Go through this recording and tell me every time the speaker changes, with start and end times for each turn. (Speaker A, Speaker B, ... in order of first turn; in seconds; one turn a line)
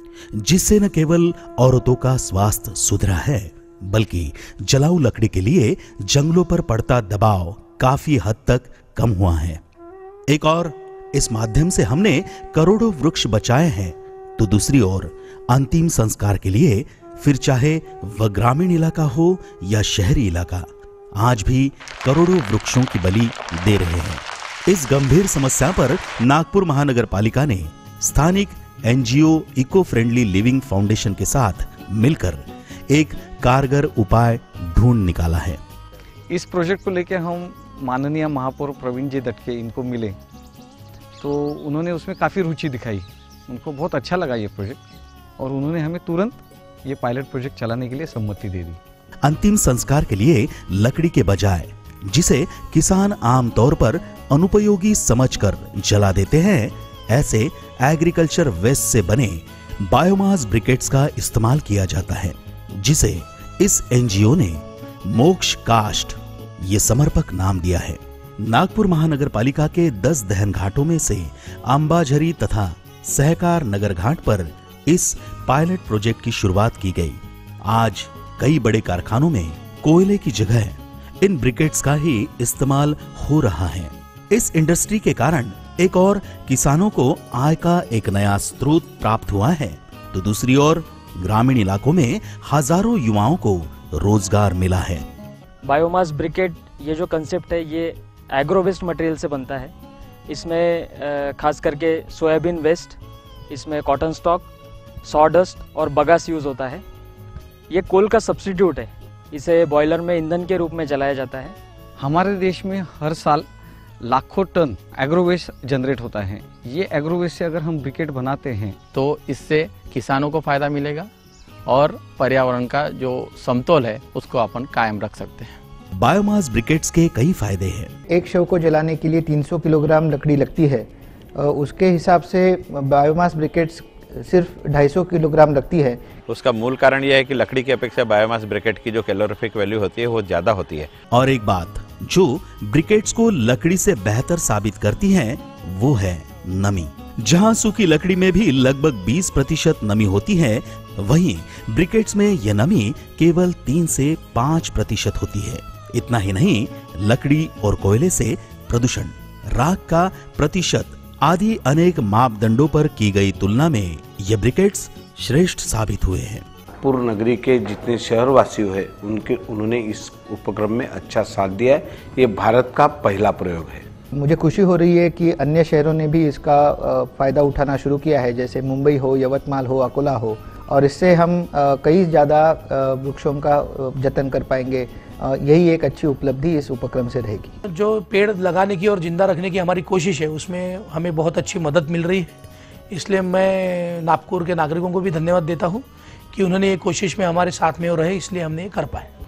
Speaker A: 0.4-9.6
Speaker A: 10.3-35.6
Speaker B: 36.3-40.2
Speaker B: 41.2-44.8
Speaker B: 45.4-48.8
Speaker A: 49.2-95.1
Speaker C: 95.6-99.7
Speaker C: 100.3-103.0
Speaker C: 103.5-104.5
Speaker C: 105.0-106.8
Speaker C: 107.7-111.6
Speaker B: 112.0-113.5
Speaker B: 114.0-118.8
Speaker D: 118.9-121.1
Speaker D: 121.7-125.6
Speaker A: 126.0-127.9
Speaker E: 128.1-136.0
Speaker F: 136.3-140.9
Speaker A: 141.1-166.4
Speaker G: 166.8-173.8
Speaker E: 174.1-187.5
Speaker H: 187.6-192.3
Speaker H: 192.9-199.1